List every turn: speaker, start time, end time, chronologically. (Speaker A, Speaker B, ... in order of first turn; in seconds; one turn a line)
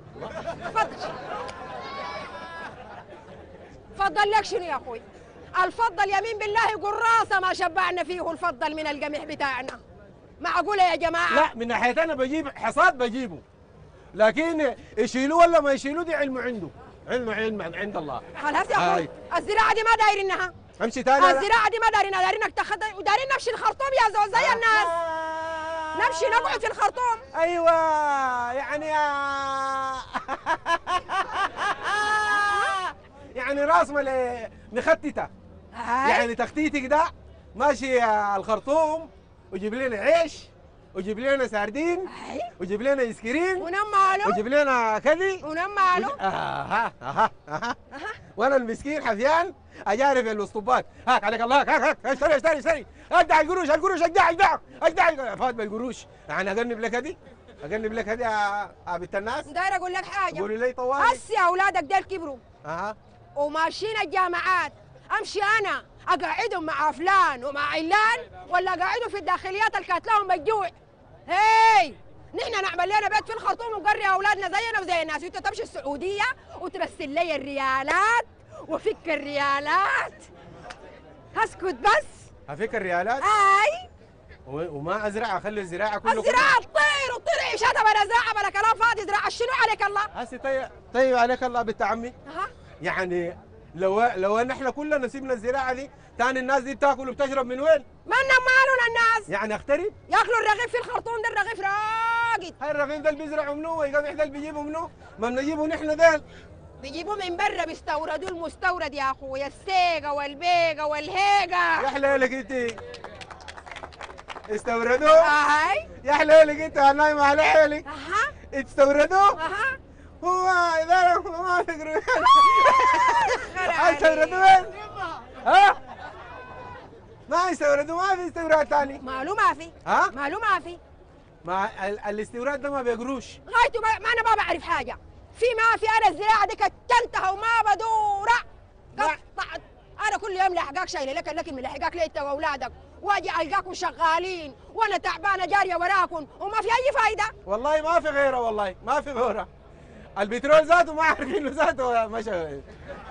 Speaker A: 0.6-1.1
Speaker A: 3.9-5.0
Speaker A: 5.6-9.8
Speaker A: 10.4-11.5
Speaker B: 11.3-13.4
Speaker B: 14.1-18.2
Speaker A: 18.4-20.5
Speaker B: 18.7-19.1
Speaker B: 20.8-21.5
Speaker A: 21.1-24.9
Speaker B: 24.3-26.6
Speaker A: 25.9-27.2
Speaker B: 27.3-35.3
Speaker A: 35.7-36.3
Speaker B: 36.0-43.7
Speaker A: 42.1-42.5
Speaker A: 43.6-44.4
Speaker B: 44.2-47.8
Speaker A: 45.4-46.2
Speaker B: 48.4-59.5
Speaker A: 59.5-62.4
Speaker B: 60.3-61.2
Speaker B: 62.6-63.0
Speaker A: 63.4-70.7
Speaker A: 71.3-80.2
Speaker A: 81.3-82.2
Speaker B: 82.5-83.2
Speaker A: 83.2-83.9
Speaker B: 84.5-86.5
Speaker A: 86.0-90.1
Speaker B: 90.1-92.1
Speaker B: 92.8-97.8
Speaker A: 98.0-99.3
Speaker B: 99.3-99.9
Speaker A: 100.1-102.5
Speaker B: 102.6-106.2
Speaker A: 106.8-111.9
Speaker B: 111.8-112.8
Speaker B: 114.5-115.3
Speaker A: 115.0-115.9
Speaker B: 116.0-117.8
Speaker A: 117.8-118.3
Speaker B: 118.5-119.4
Speaker A: 119.3-119.8
Speaker B: 120.2-124.7
Speaker A: 122.4-124.4
Speaker B: 125.4-125.8
Speaker B: 127.3-129.0
Speaker A: 129.0-130.8
Speaker B: 129.8-130.1
Speaker B: 131.4-133.4
Speaker A: 133.5-138.4
Speaker A: 138.9-147.3
Speaker B: 147.4-149.5
Speaker B: 150.2-152.6